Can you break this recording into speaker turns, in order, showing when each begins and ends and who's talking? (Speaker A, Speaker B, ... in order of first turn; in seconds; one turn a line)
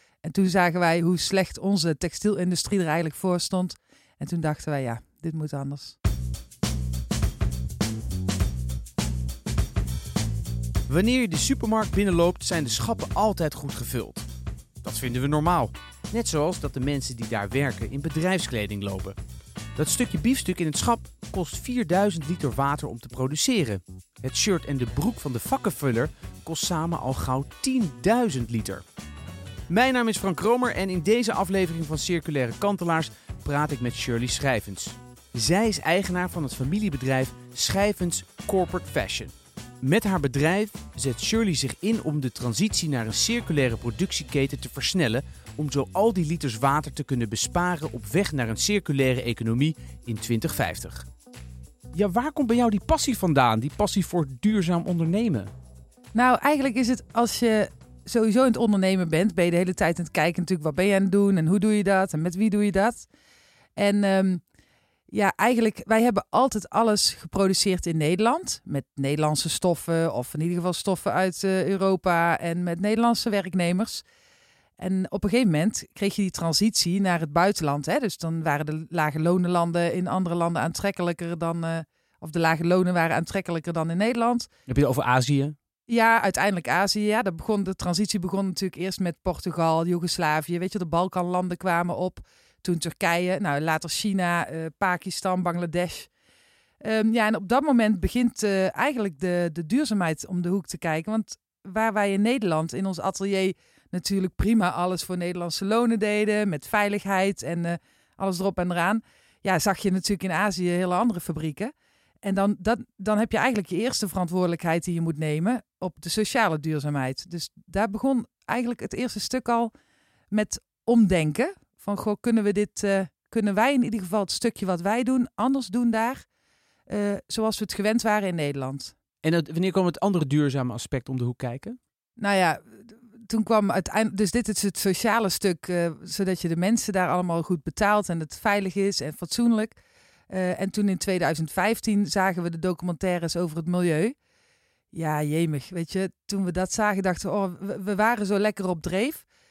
Speaker A: 0.2-6.0
Speaker B: 10.9-14.2
Speaker B: 14.8-19.2
Speaker B: 19.8-28.8
Speaker B: 29.7-51.1
Speaker B: 51.9-55.5
Speaker A: 56.1-63.1
Speaker A: 63.8-64.4
Speaker A: 65.1-74.0
Speaker A: 74.8-84.5
Speaker B: 84.7-85.6
Speaker A: 85.9-96.1
Speaker A: 96.8-111.7
Speaker A: 112.2-119.7
Speaker A: 120.3-126.2
Speaker A: 126.9-128.9
Speaker B: 129.2-131.8
Speaker A: 132.2-139.8
Speaker A: 140.3-144.2
Speaker A: 144.9-149.2